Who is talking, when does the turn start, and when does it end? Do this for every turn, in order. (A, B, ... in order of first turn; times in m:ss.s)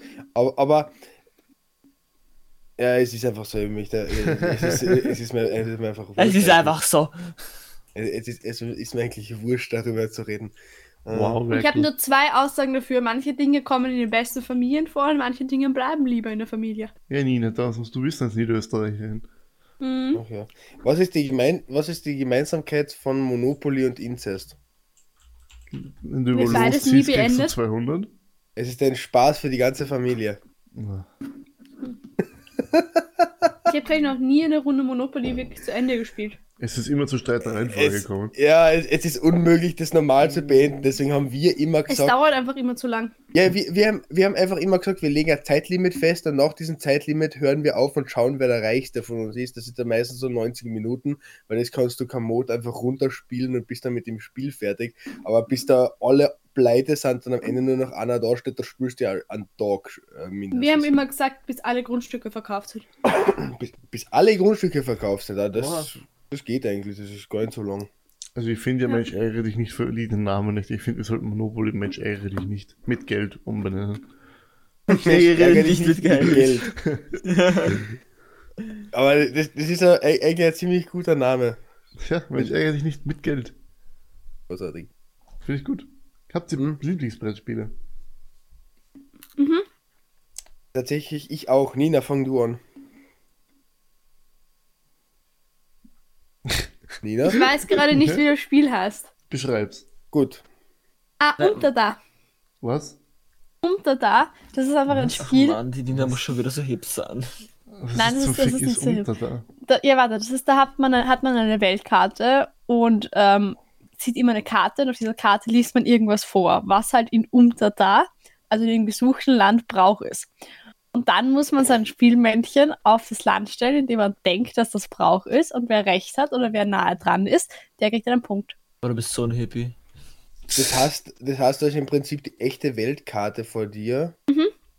0:00.3-0:00.9 A
0:02.8-0:06.8 A
0:04.4-0:05.1 B
0:06.2-0:07.2 C
0:07.9-0:10.5 A
0:11.0-0:11.4 A
0:11.1-0:11.9 B
0:11.5-0:16.9 D
0:17.1-0:19.2 B
0:19.8-0:20.2 D
0:20.1-0:24.6 A
0:25.7-0:28.1 B
0:26.3-0:27.5 D
0:26.4-0:26.8 A
0:28.6-0:30.4 A
0:30.7-0:31.1 B
0:32.6-0:33.5 A
0:33.7-0:36.4 D
0:36.6-0:38.3 B
0:37.4-0:42.1 A
0:41.9-0:43.1 D
0:43.3-1:01.0 A
1:00.5-1:02.8 D
1:03.0-1:07.9 A
1:05.6-1:05.9 C
1:08.3-1:14.0 B
1:14.9-1:16.7 C
1:14.9-1:16.7 A
1:16.8-1:17.9 B
1:17.2-1:17.8 C
1:18.9-1:21.6 A
1:22.0-1:23.6 B
1:24.5-1:24.9 A
1:25.4-1:27.7 B
1:29.4-1:29.6 D
1:30.7-1:32.6 A
1:37.0-1:37.4 A
1:37.2-1:39.1 D
1:37.7-1:38.2 B
1:39.3-1:39.9 B
1:40.1-1:40.4 A
1:41.2-1:42.0 D
1:41.4-1:41.6 C
1:42.6-1:43.0 B
1:43.6-1:45.6 D
1:44.9-1:45.2 B
1:45.2-1:47.3 C
1:47.8-1:49.4 B
1:47.9-1:49.1 D
1:49.6-2:00.3 D
2:00.9-2:08.5 D
2:08.8-2:09.8 C
2:10.5-2:14.2 A